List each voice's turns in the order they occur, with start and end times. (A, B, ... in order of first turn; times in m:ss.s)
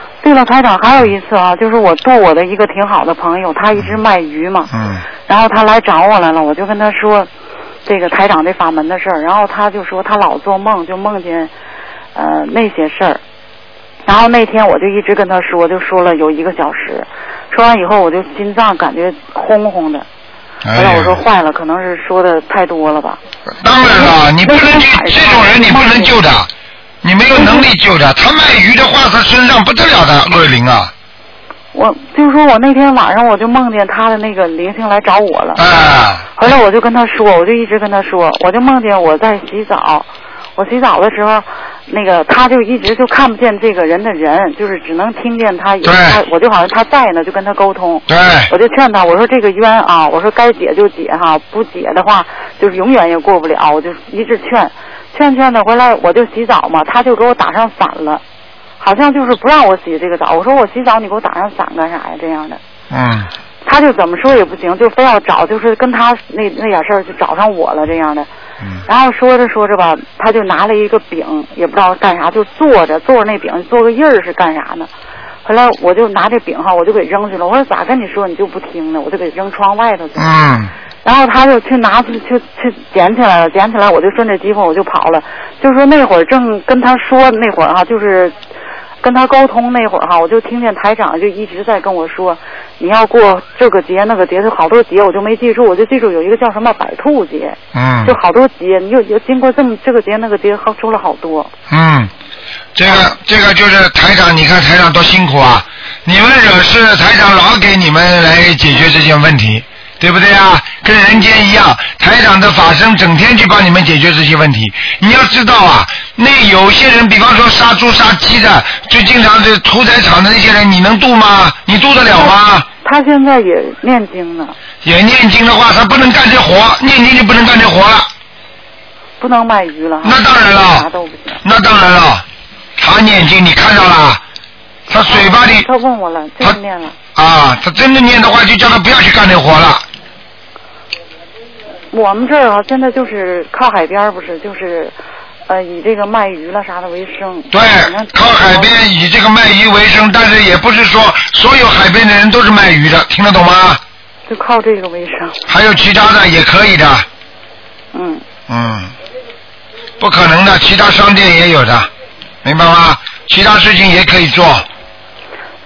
0:00.2-0:04.7 A
0:04.7-0:05.0 B
0:05.3-0:07.3 A
0:07.9-0:11.5 A
0:12.1-0:13.2 A
0:14.1-0:20.1 A
0:20.6-0:21.2 B
0:20.8-0:23.2 A
0:23.6-0:26.5 B
0:23.8-0:26.2 A
0:27.0-0:30.9 B
0:27.3-0:27.7 A
0:31.7-0:35.6 A
0:35.6-0:36.3 B
0:36.4-0:58.2 A
0:45.8-0:46.2 B
0:48.1-0:48.5 B
0:58.8-1:02.6 A
1:02.9-1:03.3 B
1:03.6-1:08.3 A
1:08.9-1:14.9 A
1:15.4-1:20.4 A
1:20.2-1:20.7 B
1:21.0-1:28.4 A
1:29.0-1:41.5 A
1:37.7-1:38.2 B
1:41.7-1:42.1 B
1:42.8-2:02.7 B
2:02.1-2:04.6 A
2:04.8-2:08.1 B
2:09.2-2:11.4 A
2:10.0-2:10.9 B
2:11.4-2:12.2 B
2:12.8-2:14.2 B
2:14.9-2:15.7 B
2:15.1-2:17.0 A
2:17.2-2:19.8 B
2:21.9-2:28.8 A
2:27.5-2:33.8 B
2:34.3-2:35.4 A
2:35.5-2:37.1 B
2:37.9-2:38.2 A
2:38.5-2:38.9 B
2:40.0-2:41.9 B
2:42.4-2:44.7 B